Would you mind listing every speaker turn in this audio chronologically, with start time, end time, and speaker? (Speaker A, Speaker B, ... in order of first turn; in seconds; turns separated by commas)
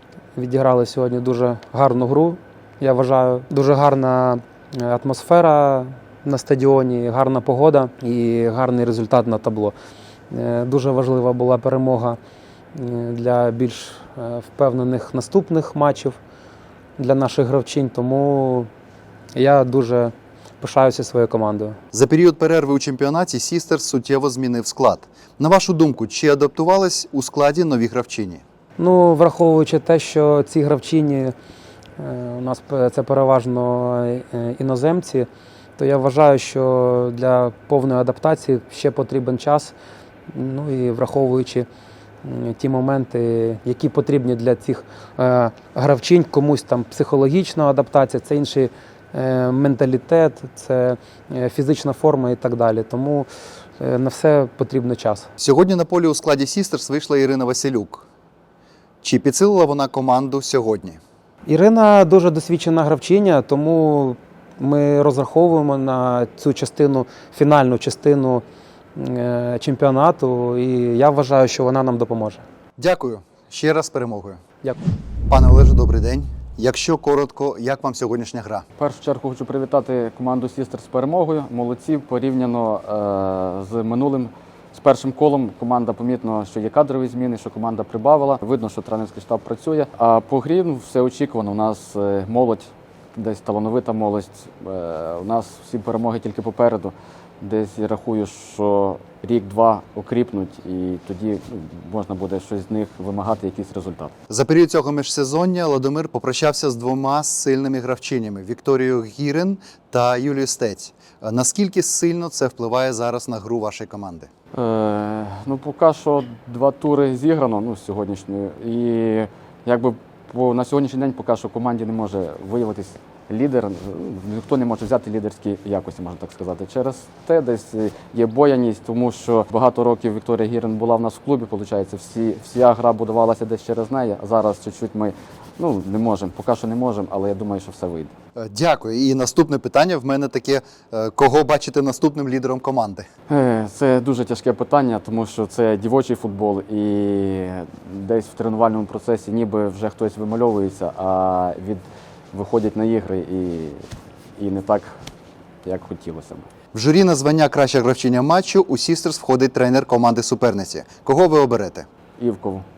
Speaker A: 0.3-9.7, Speaker A: 10.3-12.2, Speaker A: 12.7-16.2, Speaker A: 17.0-18.7, Speaker A: 19.3-21.8, Speaker B: 21.9-28.4, Speaker A: 28.8-31.3, Speaker A: 32.0-39.7, Speaker A: 40.3-41.7, Speaker A: 42.2-53.3, Speaker A: 53.8-55.3, Speaker B: 55.4-58.0, Speaker B: 59.0-61.0, Speaker A: 61.4-68.4, Speaker A: 69.0-72.4, Speaker B: 72.8-74.4, Speaker B: 75.3-78.6, Speaker C: 78.8-104.1, Speaker B: 104.3-114.3, Speaker C: 114.5-138.1, Speaker B: 138.4-143.1, Speaker C: 143.3-153.8, Speaker C: 154.4-154.9, Speaker C: 155.6-156.5, Speaker B: 156.7-161.8, Speaker C: 162.2-162.6